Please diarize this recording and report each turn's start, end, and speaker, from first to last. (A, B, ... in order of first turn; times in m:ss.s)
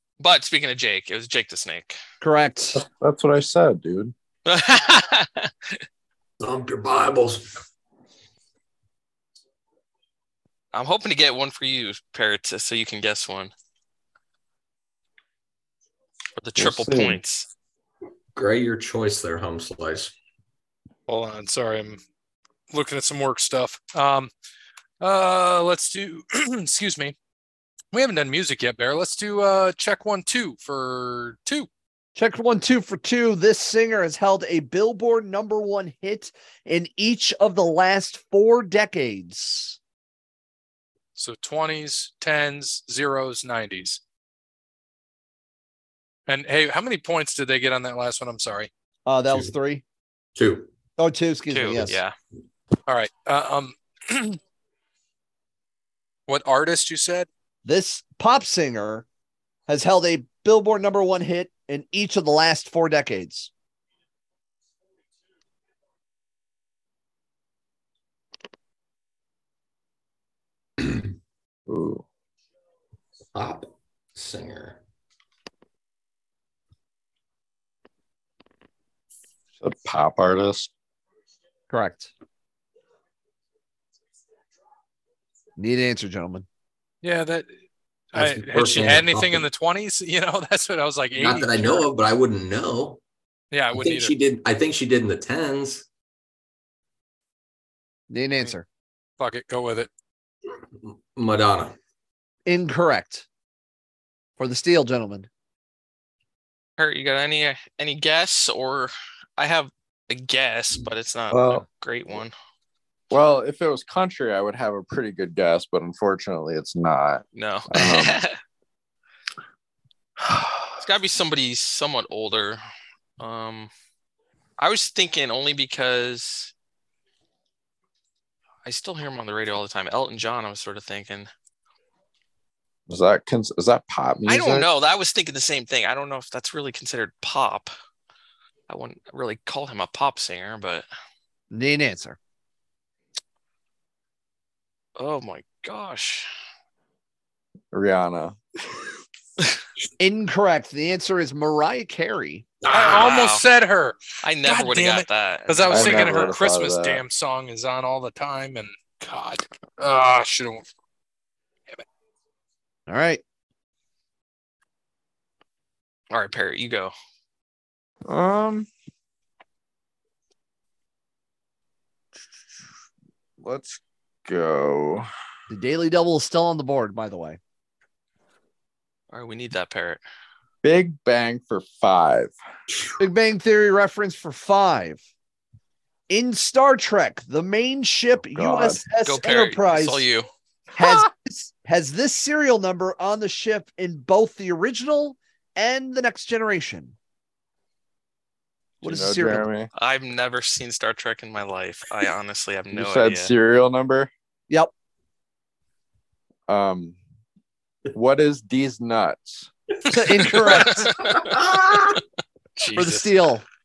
0:00.2-0:02.0 A
0:02.2-0:02.8 B
0:02.8-0:04.1 C
0:04.5-0:05.8 A
0:06.4-0:07.5 D
0:10.7-0:13.5 A
0:16.4-0:17.5 A
0:16.6-0:17.2 C
0:18.4-0:20.1 D
0:21.1-0:22.0 E
0:22.7-0:24.3 E
0:25.0-0:27.2 E
0:27.9-0:31.7 E
0:32.2-0:39.8 B
0:41.2-0:44.0 E
0:46.3-0:48.7 E
0:49.1-0:49.8 B
0:50.4-0:50.7 D
0:51.0-0:52.0 B
0:51.5-0:52.1 A
0:52.9-0:54.4 E
0:56.3-0:57.3 E
0:57.6-0:59.1 B
0:59.7-1:03.5 B
1:11.7-1:12.0 C
1:13.3-1:14.8 D
1:19.6-1:20.7 C
1:21.7-1:22.1 B
1:25.6-1:26.5 B
1:27.0-1:27.5 E
1:28.1-1:31.9 E
1:28.2-1:29.5 D
1:31.2-1:33.0 D
1:33.5-1:34.1 E
1:33.7-1:35.9 D
1:38.1-1:38.7 B
1:39.2-1:39.9 E
1:40.8-1:41.8 D
1:42.5-1:43.3 B
1:44.4-1:45.3 B
1:46.8-1:52.3 A
1:51.3-1:51.6 C
1:53.1-1:58.2 C
1:57.4-1:58.4 A
2:00.2-2:00.8 C
2:00.8-2:02.6 A
2:03.2-2:03.7 A
2:04.6-2:06.5 A
2:08.6-2:11.3 A
2:12.9-2:14.7 C
2:14.3-2:17.7 A
2:18.7-2:20.8 A
2:21.5-2:22.2 B
2:25.0-2:26.3 A
2:27.7-2:28.9 C
2:30.0-2:32.5 B
2:32.7-2:40.7 E
2:32.7-2:33.4 A
2:34.2-2:36.3 A
2:35.7-2:37.0 C
2:42.9-2:43.2 B
2:46.1-2:46.9 A
2:48.1-2:48.7 C
2:53.4-2:55.1 C
2:55.5-2:57.4 B
2:59.1-3:00.0 A
3:00.6-3:02.3 C
3:03.0-3:05.0 B
3:06.1-3:10.0 B
3:08.4-3:08.8 C
3:09.0-3:10.3 A
3:10.8-3:17.0 B
3:18.8-3:19.7 C
3:18.8-3:19.5 B
3:19.8-3:23.3 A
3:22.7-3:24.1 C
3:26.5-3:27.0 C
3:27.9-3:29.5 C
3:29.9-3:30.9 B
3:30.4-3:31.3 A
3:31.0-3:32.0 D
3:32.6-3:33.0 A
3:32.6-3:33.1 E
3:32.8-3:33.4 B